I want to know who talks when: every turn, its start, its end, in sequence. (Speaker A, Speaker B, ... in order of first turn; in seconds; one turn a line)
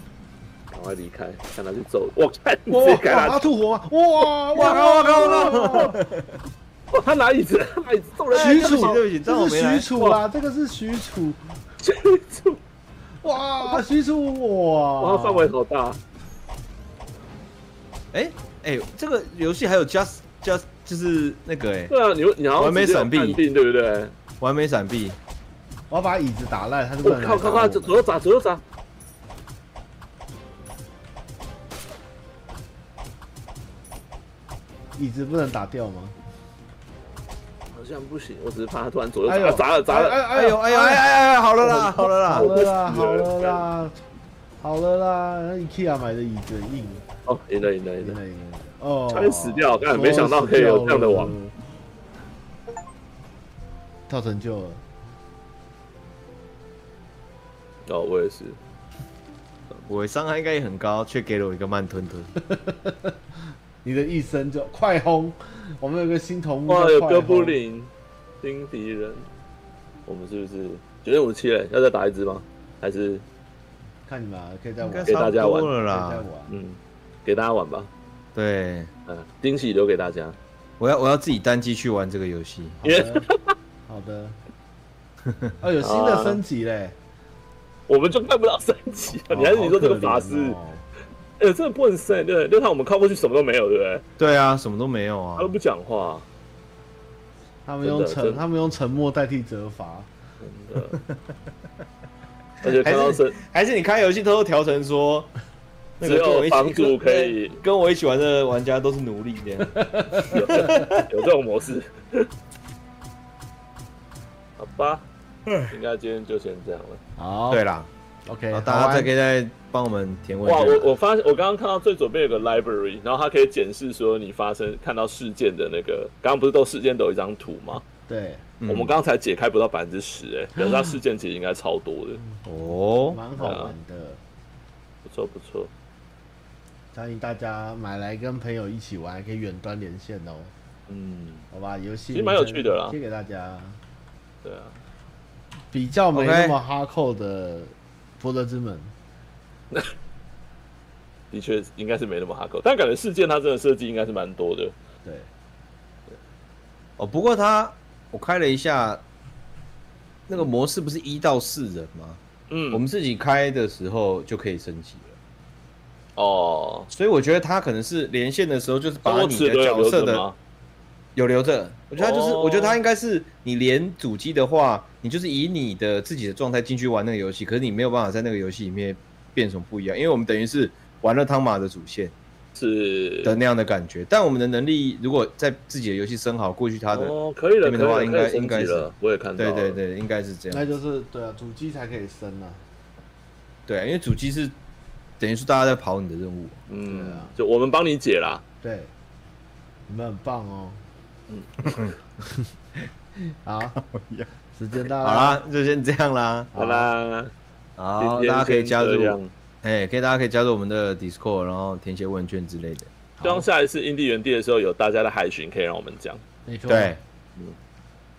Speaker A: 0.7-3.4
Speaker B: 2.7-6.0
Speaker C: 4.5-6.4
Speaker A: 4.6-5.9
Speaker A: 6.9-9.0
Speaker C: 8.3-9.9
Speaker B: 8.3-11.4
Speaker A: 11.8-12.6
Speaker B: 13.2-15.5
Speaker A: 15.0-16.0
Speaker C: 18.1-21.9
Speaker A: 21.9-24.1
Speaker C: 22.6-23.4
Speaker C: 24.4-25.2
Speaker B: 25.9-28.1
Speaker A: 27.0-28.6
Speaker B: 35.0-36.1
Speaker A: 37.7-40.2
Speaker B: 39.3-41.1
Speaker C: 40.3-42.5
Speaker A: 41.6-43.6
Speaker B: 41.6-44.0
Speaker B: 44.6-47.0
Speaker A: 47.3-48.2
Speaker B: 48.0-51.5
Speaker A: 49.1-51.4
Speaker B: 54.1-54.8
Speaker A: 57.9-58.6
Speaker C: 59.9-62.3
Speaker B: 62.4-63.1
Speaker B: 63.8-67.6
Speaker A: 66.7-67.9
Speaker A: 68.4-69.3
Speaker A: 70.1-73.2
Speaker B: 74.1-76.5
Speaker C: 74.8-76.3
Speaker A: 75.1-75.7
Speaker A: 76.5-77.9
Speaker C: 78.3-78.9
Speaker A: 79.1-80.4
Speaker C: 80.8-82.8
Speaker B: 82.8-83.3
Speaker A: 82.8-83.5
Speaker B: 83.9-84.4
Speaker C: 85.3-85.5
Speaker B: 85.6-87.0
Speaker A: 85.8-86.4
Speaker A: 87.9-90.6
Speaker B: 89.3-90.8
Speaker A: 91.4-94.0
Speaker C: 94.2-95.5
Speaker A: 95.4-96.3
Speaker B: 97.7-100.1
Speaker A: 97.8-98.4
Speaker A: 100.4-101.0
Speaker A: 102.6-103.4
Speaker C: 102.6-105.3
Speaker C: 106.0-111.1
Speaker A: 106.0-107.6
Speaker B: 109.7-110.9
Speaker A: 110.3-112.3
Speaker A: 114.6-115.0
Speaker A: 115.7-117.0
Speaker B: 117.2-117.6
Speaker C: 117.5-117.9
Speaker B: 118.3-119.1
Speaker C: 118.5-120.9
Speaker A: 120.5-127.8
Speaker B: 128.1-128.4
Speaker C: 128.6-128.9
Speaker A: 128.7-132.2
Speaker C: 132.4-133.2
Speaker B: 133.1-134.2
Speaker A: 133.4-133.7
Speaker A: 135.1-135.7
Speaker B: 136.9-140.5
Speaker A: 140.9-141.4
Speaker B: 141.5-143.8
Speaker A: 142.1-143.0
Speaker A: 144.4-144.8
Speaker B: 145.7-148.9
Speaker C: 146.1-146.6
Speaker A: 151.3-154.7
Speaker C: 157.0-159.0
Speaker C: 160.3-162.2
Speaker A: 162.5-162.8
Speaker C: 162.7-165.2
Speaker A: 166.2-166.9
Speaker C: 166.9-170.2
Speaker A: 169.0-170.4
Speaker C: 171.2-182.1
Speaker A: 172.0-172.8
Speaker A: 182.6-183.4
Speaker C: 183.2-190.7
Speaker A: 186.9-189.8
Speaker B: 190.5-192.6
Speaker C: 193.7-194.6
Speaker C: 195.2-196.6
Speaker A: 196.7-198.4
Speaker B: 196.9-197.3
Speaker B: 198.6-198.9
Speaker B: 199.9-200.8
Speaker C: 201.6-201.9
Speaker B: 203.4-203.8
Speaker C: 203.8-204.3
Speaker B: 204.6-205.4
Speaker C: 204.9-206.5
Speaker B: 206.5-206.9
Speaker A: 206.6-207.3
Speaker C: 207.8-212.9
Speaker A: 208.0-209.3
Speaker B: 213.2-213.5
Speaker A: 213.2-216.2
Speaker B: 216.5-216.9
Speaker C: 216.7-217.0